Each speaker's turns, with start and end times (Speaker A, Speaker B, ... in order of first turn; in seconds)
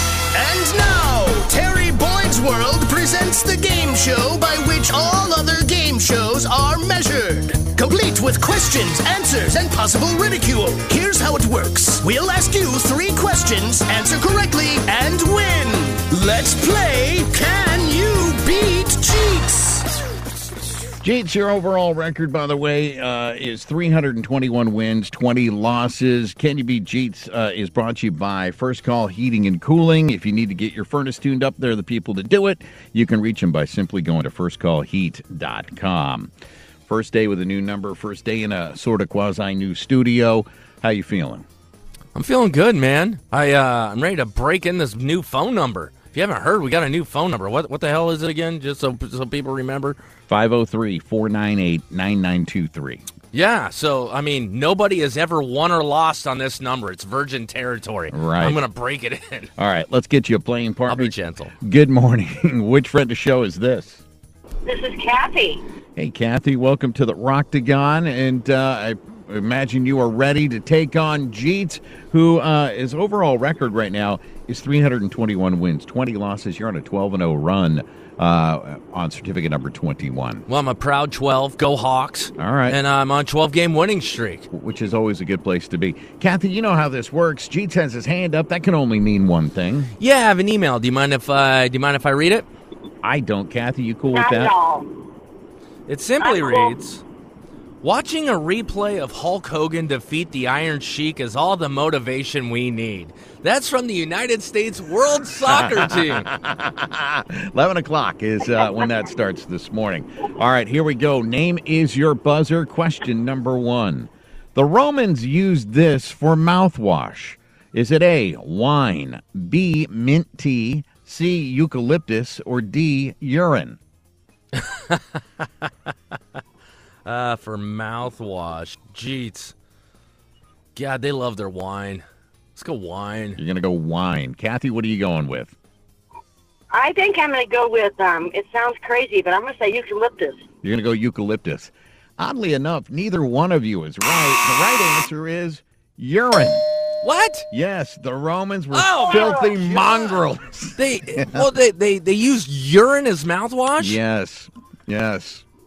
Speaker A: 0.3-19.9
Speaker B: 21.0-36.3, 36.9-41.5, 50.3-53.0, 58.1-58.6, 59.6-64.0, 66.0-80.5, 82.4-82.8, 84.5-89.9, 93.0-94.5, 105.4-123.8, 133.4-135.6, 140.6-146.7, 147.5-151.4, 153.8-155.4
Speaker C: 42.1-50.0, 53.3-59.5, 60.9-61.5, 80.5-84.5, 90.0-92.5, 95.9-97.0, 97.8-106.3, 124.5-125.0, 127.0-129.5, 130.8-132.1, 132.6-133.4, 147.0-147.5, 148.7-150.2, 150.8-154.0
Speaker D: 64.7-65.6, 94.1-94.9, 96.2-96.8, 136.7-140.4, 149.1-149.5